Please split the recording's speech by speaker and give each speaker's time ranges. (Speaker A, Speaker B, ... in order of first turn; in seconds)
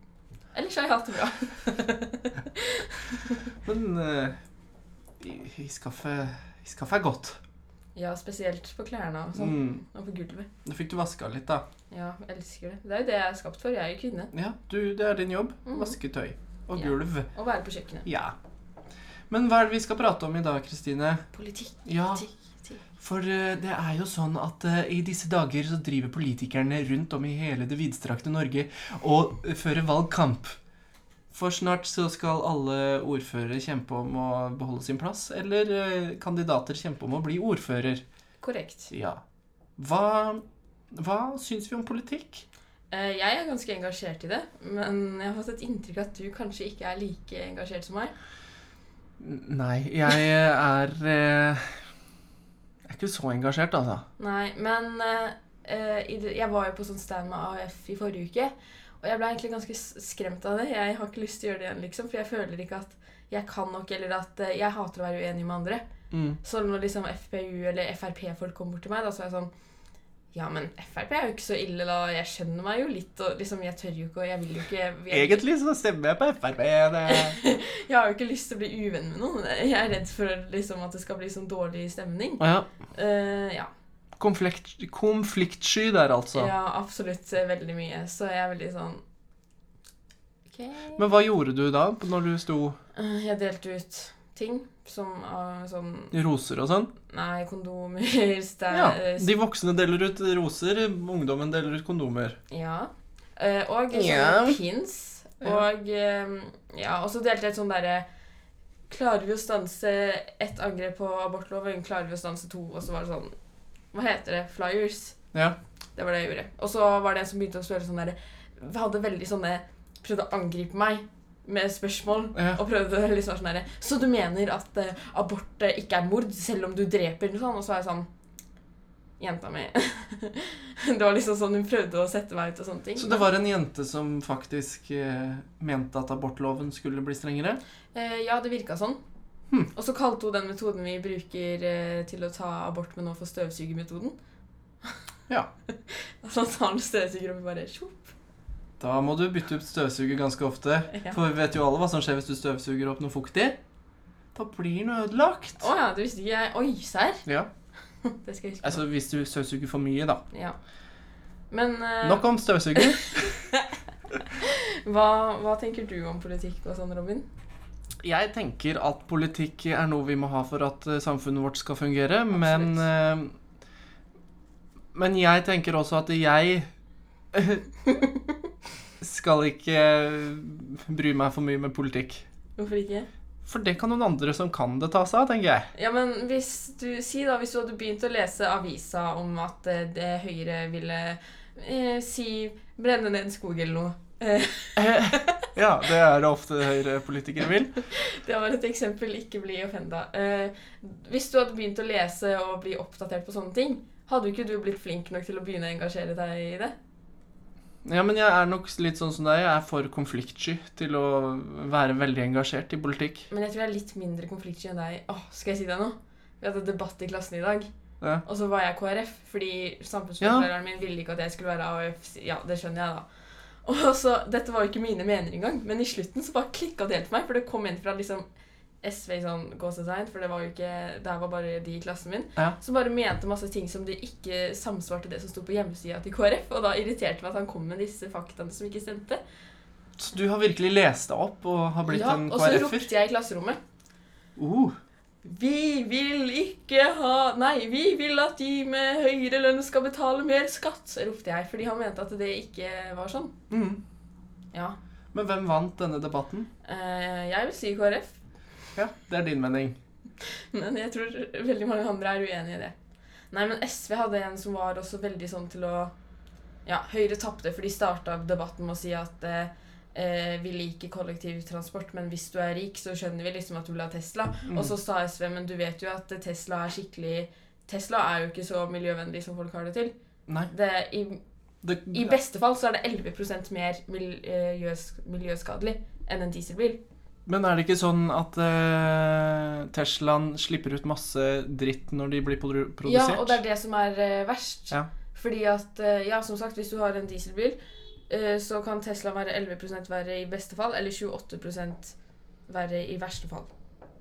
Speaker A: 0.5-3.3, 8.0-10.5, 11.9-14.3, 15.7-15.9, 16.8-18.1, 21.3-22.8, 38.4-38.9, 42.9-48.1, 54.2-65.8, 66.4-69.5, 70.3-75.4, 77.1-82.4, 82.9-83.7, 86.3-89.0, 90.5-91.0, 92.9-96.2, 97.1-99.3, 102.5-108.0, 108.9-113.3, 113.9-115.2, 116.0-128.1, 129.2-133.3, 137.9-139.0, 139.7-144.2, 145.9-148.1, 150.9-151.2, 155.6-157.2, 158.0-158.8, 160.3-160.6, 161.5-167.2, 172.3-172.8, 177.8-178.1, 182.6-183.1, 185.7-195.5, 197.9-206.7, 213.3-217.7, 218.2-223.1, 223.6-228.2, 228.8-239.2, 241.9-243.6, 245.2-253.3, 256.6-258.2, 260.2-262.7, 263.3-265.9, 266.6-279.9, 280.5-281.2, 281.9-286.8, 292.8-297.6, 298.1-301.9, 302.5-303.5
Speaker B: 3.6-4.4, 5.2-7.4, 9.4-9.8, 10.6-11.6, 14.3-17.3, 18.0-18.3, 19.3-21.2, 21.9-22.2, 23.0-30.6, 31.3-38.0, 38.9-39.2, 39.8-42.4, 49.2-51.8, 52.8-54.0, 66.1-66.4, 75.1-77.4, 82.4-82.7, 84.2-86.5, 91.0-92.8, 96.1-96.9, 98.7-102.4, 103.9-104.6, 122.3-122.6, 132.9-137.6, 148.8-153.6, 154.3-155.7, 158.6-160.2, 162.0-163.4, 168.0-173.3, 174.9-176.7, 177.3-177.7, 179.0-182.2, 183.4-185.7, 194.8-197.8, 207.8-213.3, 220.2-220.5, 240.0-242.9, 244.4-244.8, 253.5-253.8, 255.1-256.5, 258.8-259.8, 274.5-274.7, 281.6-282.1, 287.2-293.4